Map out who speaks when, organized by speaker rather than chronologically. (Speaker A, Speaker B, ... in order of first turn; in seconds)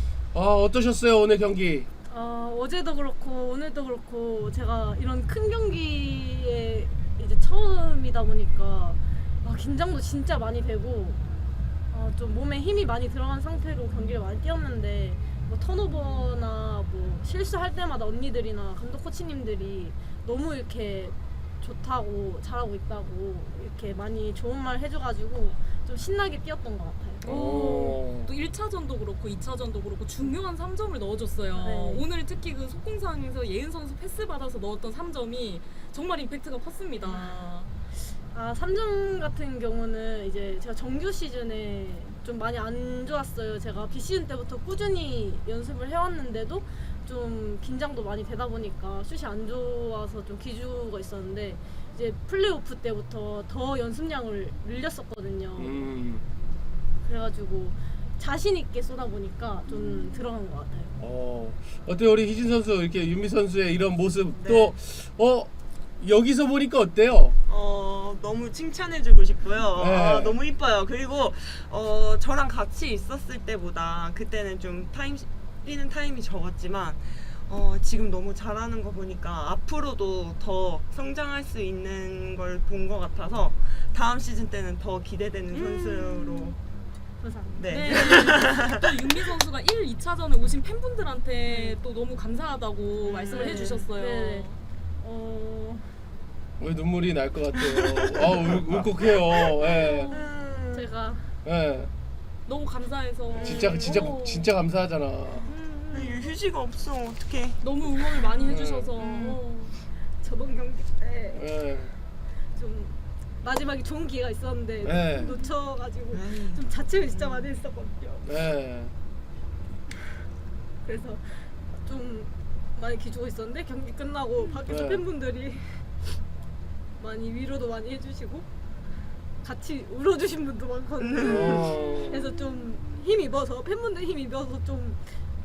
Speaker A: 0.3-1.9, 27.2-28.3, 55.6-56.2, 59.7-60.3, 61.0-67.3, 69.8-70.4, 96.6-100.1, 101.4-101.9, 103.4-105.5, 108.5-108.9, 111.3-111.9, 114.8-115.3, 118.2-118.9, 124.7-125.0, 131.2-132.2
Speaker B: 2.1-11.2, 11.9-27.7, 31.6-32.0, 37.0-37.5, 38.3-55.9, 57.0-60.9, 87.2-88.3, 91.5-91.8, 93.3-94.5, 95.0-95.9, 100.7-101.3, 105.5-106.2, 110.2-111.4, 112.5-118.3, 120.8-125.9, 127.0-128.5, 129.4-135.0
Speaker C: 27.2-37.7, 85.5-86.5, 87.7-94.6, 99.6-100.3, 102.5-104.5, 107.6-109.7
Speaker D: 64.3-64.7, 67.5-86.5, 87.5-88.8, 93.0-93.9, 97.5-100.8, 103.3-104.1, 105.9-109.4, 116.1-117.5, 131.0-131.7